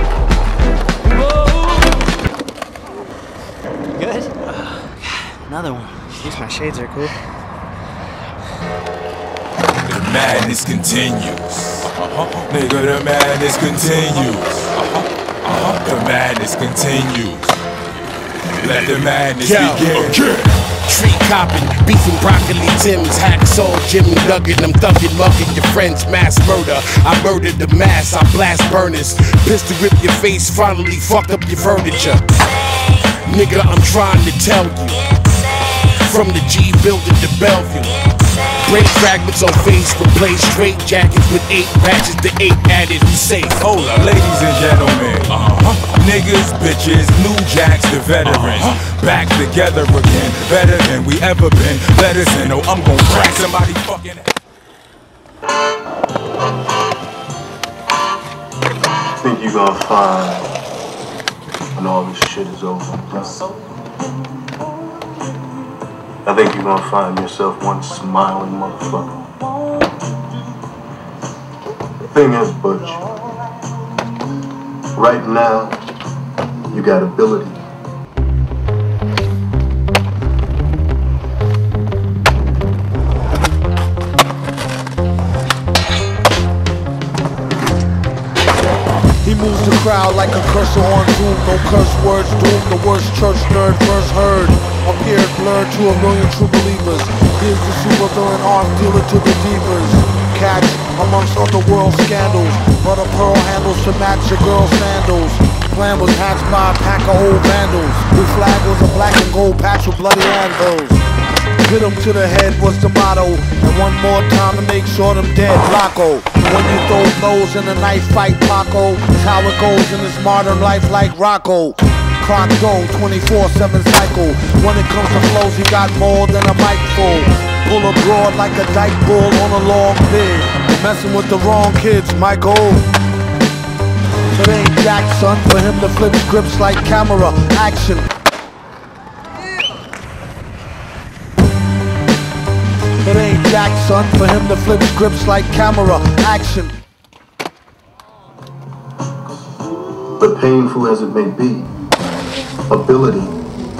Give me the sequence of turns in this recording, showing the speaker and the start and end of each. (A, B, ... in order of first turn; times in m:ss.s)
0:01.2-0:02.0 A
0:03.9-0:07.2 A
0:09.8-0:17.6 B
0:18.6-0:20.6 B
0:19.4-0:43.7 C
0:43.6-0:54.2 B
0:59.2-1:00.5 D
1:01.7-1:03.5 D
1:06.2-1:09.3 D
1:12.0-1:13.2 D
1:14.9-1:15.8 D
1:16.7-1:17.6 D
1:29.2-1:51.0 E
1:51.6-2:12.8 E
2:14.3-2:18.1 E
2:23.0-2:26.7 E
2:30.2-2:31.7 D
2:32.7-2:33.4 D